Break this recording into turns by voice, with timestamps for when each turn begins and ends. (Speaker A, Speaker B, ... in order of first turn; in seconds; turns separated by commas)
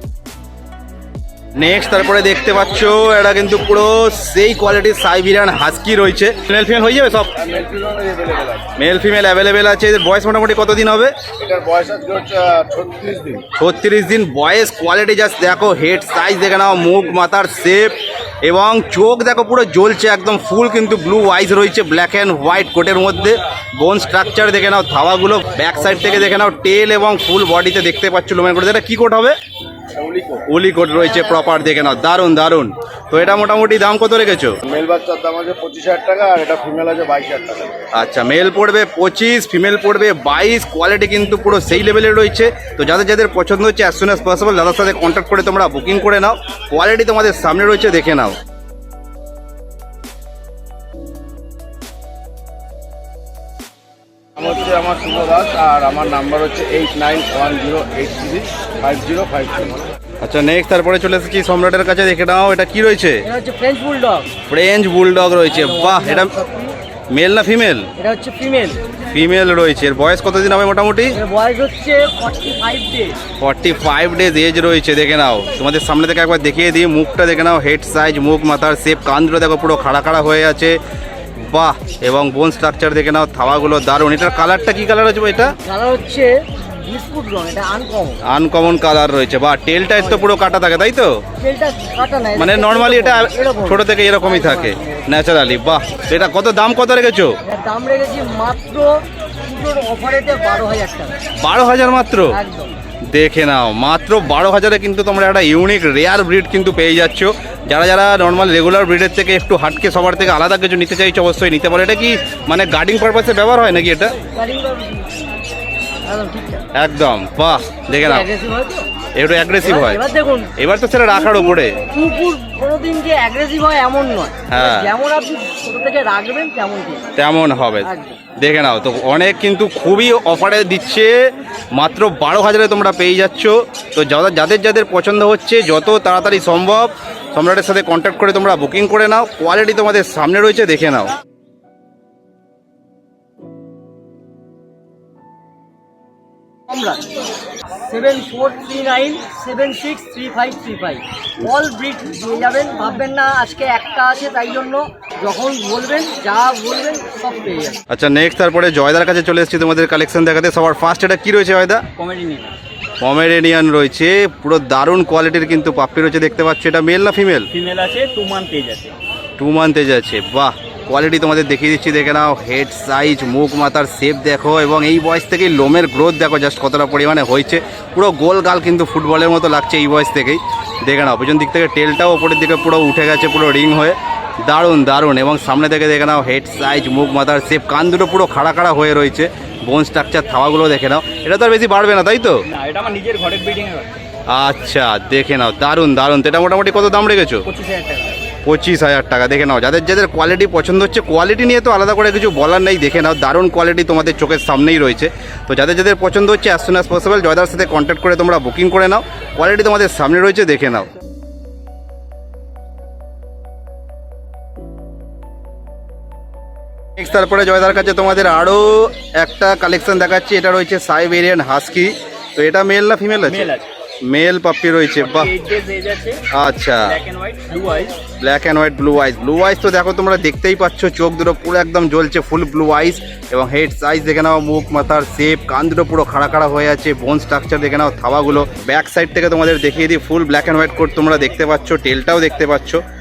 Speaker A: 1.6-7.3, Speaker B: 7.4-8.7, Speaker A: 8.8-11.2, Speaker B: 11.4-13.4, Speaker A: 13.6-29.4, Speaker B: 29.9-30.4, Speaker A: 30.5-34.6, Speaker B: 34.6-37.8, Speaker A: 37.9-48.4, Speaker B: 54.4-59.8, Speaker A: 60.2-63.2, Speaker C: 63.2-64.3, Speaker A: 64.5-66.3, Speaker C: 65.5-66.7, Speaker A: 67.1-67.9, Speaker C: 68.0-68.8, Speaker A: 69.1-71.2, Speaker C: 71.1-73.2, Speaker A: 73.4-80.8, Speaker A: 81.4-85.5, Speaker C: 85.6-88.2, Speaker A: 88.2-91.2, Speaker C: 90.0-90.2, Speaker C: 91.4-95.0, Speaker A: 92.4-97.4, Speaker C: 97.5-101.2, Speaker A: 101.4-102.4, Speaker C: 102.3-102.7, Speaker A: 103.1-114.2, Speaker C: 114.3-115.1, Speaker C: 116.1-116.6, Speaker A: 116.7-118.3, Speaker C: 118.0-118.9, Speaker A: 119.2-120.0, Speaker C: 119.6-120.5, Speaker A: 120.6-121.8, Speaker C: 121.1-127.1, Speaker A: 124.5-124.9, Speaker A: 127.2-141.1, Speaker C: 127.8-128.2, Speaker C: 146.7-147.1, Speaker C: 147.9-157.8, Speaker A: 157.9-161.8, Speaker D: 162.0-162.5, Speaker A: 163.0-167.5, Speaker D: 167.5-169.0, Speaker A: 169.4-192.4, Speaker D: 192.5-193.9, Speaker A: 194.3-197.5, Speaker D: 197.5-198.1, Speaker A: 198.4-210.9, Speaker A: 217.0-223.5, Speaker D: 223.3-223.7, Speaker A: 224.1-225.3, Speaker D: 225.0-226.2, Speaker A: 226.3-227.0, Speaker D: 226.9-228.0, Speaker A: 228.2-242.8